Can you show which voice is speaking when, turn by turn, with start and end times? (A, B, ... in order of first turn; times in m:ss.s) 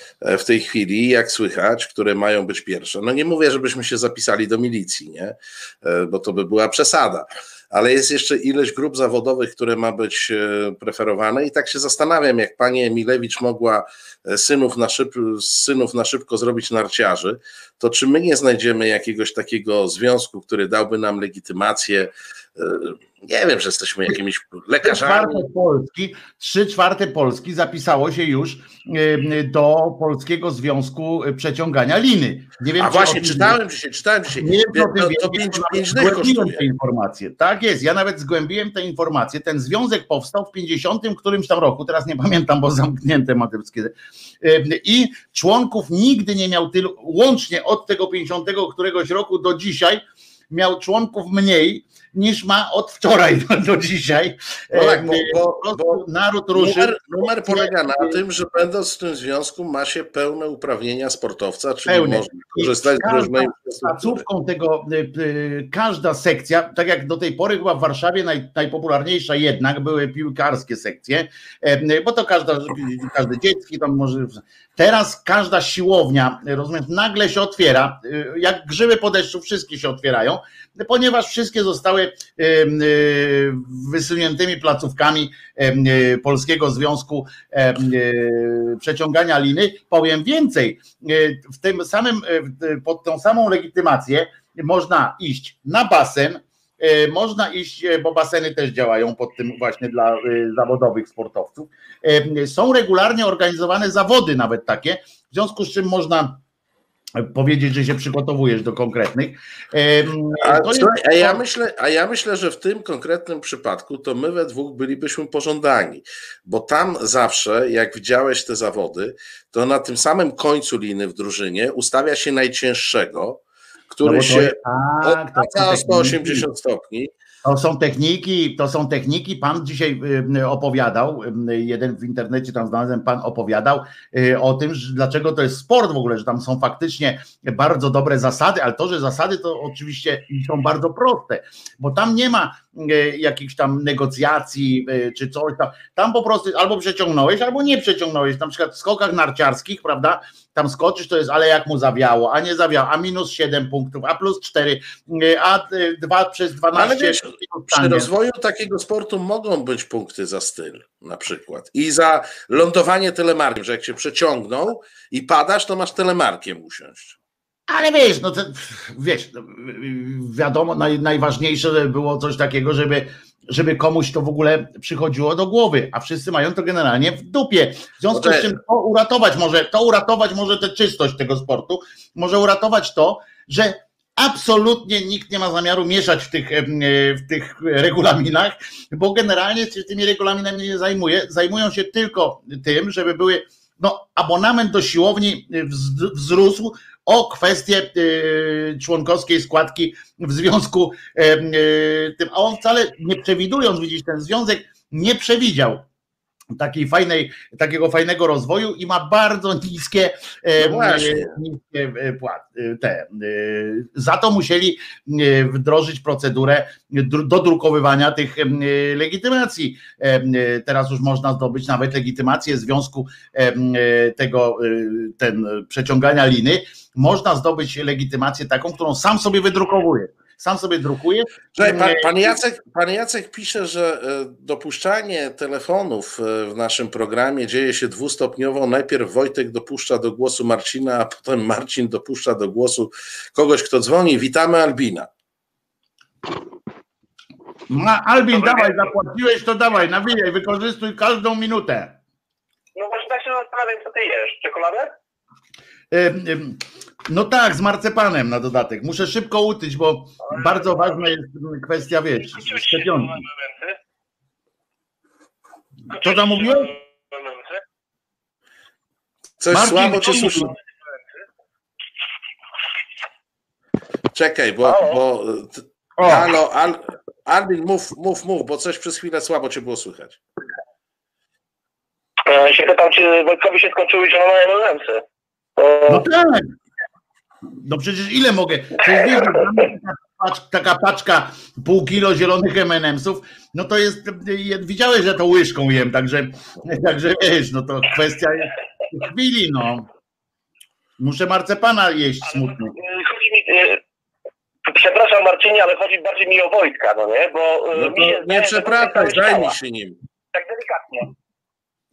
0:00.2-0:25.4 A
0:24.8-0:33.6 B
0:32.8-0:36.7 A
0:34.3-0:58.2 B
0:54.7-1:04.2 A
1:01.9-1:46.4 B
1:47.2-1:51.4 B
1:50.4-2:07.1 A
2:04.0-2:06.5 B
2:07.4-2:38.1 B
2:36.7-2:47.2 A
2:47.7-3:25.8 B
2:58.1-2:58.5 A
3:26.6-3:52.4 B
3:30.6-3:31.3 A
3:51.6-4:05.1 A
4:07.7-4:12.0 B
4:12.8-4:14.9 C
4:15.9-4:23.2 B
4:20.4-4:20.8 C
4:22.4-4:23.8 C
4:25.9-4:26.8 B
4:25.9-4:27.6 C
4:29.4-4:30.5 A
4:29.5-4:30.5 B
4:34.1-4:40.2 A
4:34.6-4:35.0 C
4:36.0-4:36.3 B
4:42.3-4:45.0 C
4:45.6-4:46.0 C
4:45.9-4:46.6 B
4:47.6-4:59.9 B
5:01.0-5:02.8 B
5:02.3-5:03.8 C
5:04.6-5:09.6 C
5:07.7-5:10.0 A
5:10.3-5:11.1 C